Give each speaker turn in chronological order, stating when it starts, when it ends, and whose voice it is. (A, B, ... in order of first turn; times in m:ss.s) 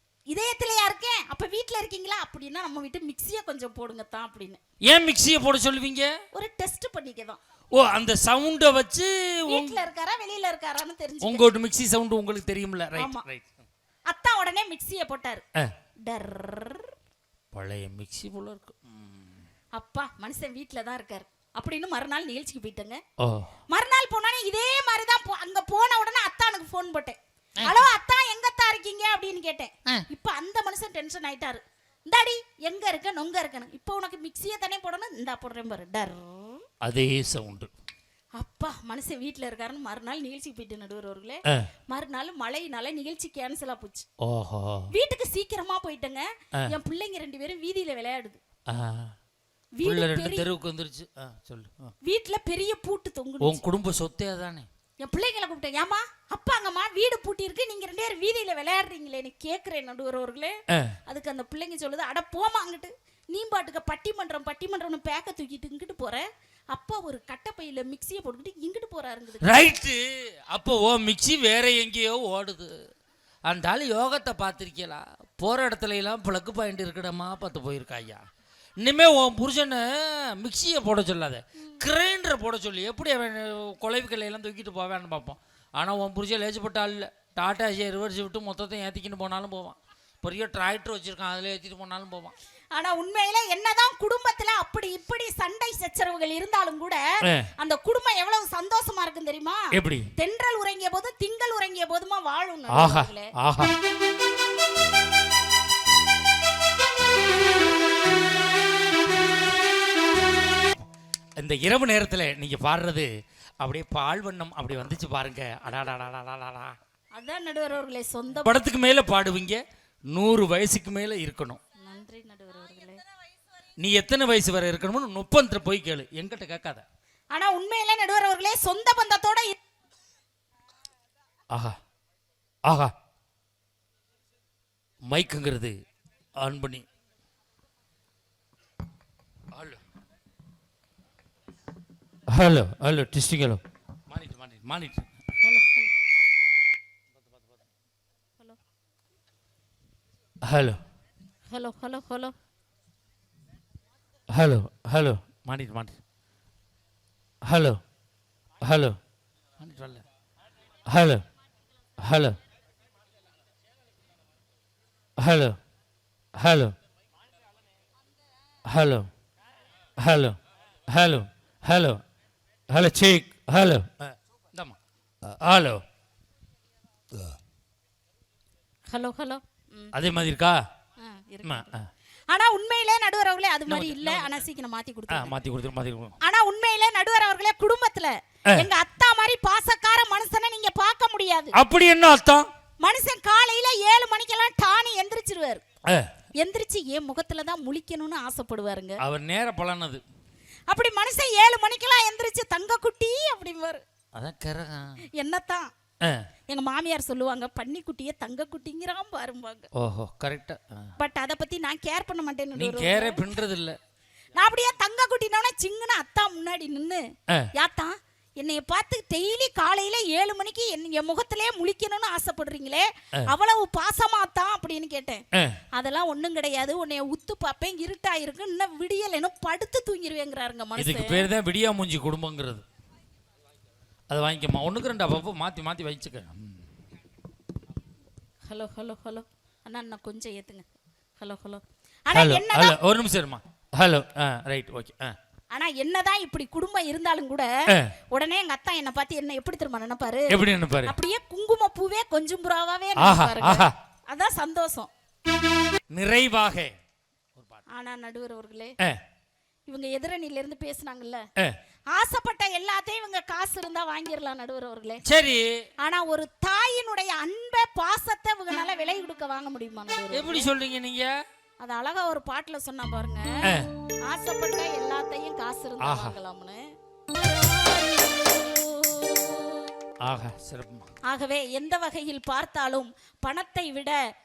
0:00.3-0:04.6 A
0:04.8-0:06.1 B
0:06.3-0:07.4 A
0:07.7-0:09.8 B
0:09.5-0:11.4 A
0:11.2-0:13.6 B
0:13.0-0:13.2 A
0:14.1-0:15.4 A
0:16.1-0:16.9 A
0:17.5-0:19.4 B
0:19.8-0:23.0 A
0:23.2-0:23.5 B
0:23.7-0:36.6 A
0:36.8-0:37.7 B
0:38.4-0:44.1 A
0:44.2-0:44.9 B
0:44.9-0:48.4 A
0:48.7-0:49.2 B
0:49.8-0:50.5 A
0:49.8-0:51.9 B
0:52.0-0:53.6 A
0:53.4-0:54.7 B
0:55.0-1:00.6 A
1:01.1-1:09.6 A
1:09.4-1:12.8 B
1:13.5-1:18.2 B
1:18.8-1:32.3 B
1:32.7-1:37.0 A
1:37.2-1:37.5 B
1:37.6-1:39.6 A
1:39.7-1:40.1 B
1:40.2-1:43.3 A
1:42.7-1:43.8 B
1:51.4-1:53.1 B
1:53.6-1:56.8 B
1:57.1-1:58.6 A
1:58.4-2:01.6 B
2:01.8-2:03.0 A
2:03.8-2:06.8 B
2:07.3-2:09.6 A
2:11.5-2:11.8 B
2:12.7-2:12.9 B
2:15.1-2:15.8 B
2:16.4-2:16.8 B
2:19.5-2:19.8 B
2:22.3-2:25.1 B
2:25.4-2:25.9 A
2:30.4-2:30.8 B
2:31.5-2:32.4 A
2:34.3-2:36.0 B
2:37.5-2:37.8 B
2:38.6-2:39.0 B
2:39.6-2:40.0 B
2:40.9-2:41.2 B
2:42.0-2:42.4 B
2:45.2-2:45.6 B
2:46.4-2:46.8 B
2:48.7-2:49.1 B
2:50.0-2:50.4 B
2:50.9-2:52.0 B
2:52.7-2:54.8 B
2:55.3-2:55.8 B
2:58.9-2:59.9 A
2:59.9-3:00.6 B
3:01.0-3:01.7 A
3:01.4-3:01.9 B
3:02.3-3:05.3 A
3:03.7-3:04.4 B
3:05.1-3:06.2 B
3:06.2-3:11.6 A
3:11.5-3:12.5 B
3:12.8-3:15.6 A
3:16.4-3:19.0 A
3:19.0-3:20.0 B
3:20.7-3:23.8 A
3:24.2-3:25.0 B
3:25.2-3:25.7 A
3:26.5-3:29.7 A
3:29.8-3:30.9 B
3:31.0-3:33.3 A
3:32.6-3:33.8 B
3:34.4-3:37.0 A
3:37.5-3:45.2 A
3:45.7-3:51.3 A
3:50.8-3:52.6 B
3:54.1-3:56.6 B
3:58.5-4:00.7 A
4:01.2-4:02.8 A
4:02.1-4:05.1 B
4:05.5-4:07.5 A
4:08.1-4:14.9 A
4:10.3-4:10.9 B
4:13.0-4:13.7 B
4:15.9-4:16.7 B
4:17.4-4:17.6 B
4:17.7-4:18.8 A
4:19.7-4:21.2 A
4:21.9-4:25.0 A
4:25.1-4:25.6 B
4:25.8-4:30.5 A
4:30.1-4:31.2 B
4:31.6-4:33.3 A
4:33.4-4:33.7 B
4:34.1-4:36.6 A
4:35.8-4:36.2 B
4:37.1-4:39.6 A
4:40.0-4:40.9 B
4:41.1-4:44.0 A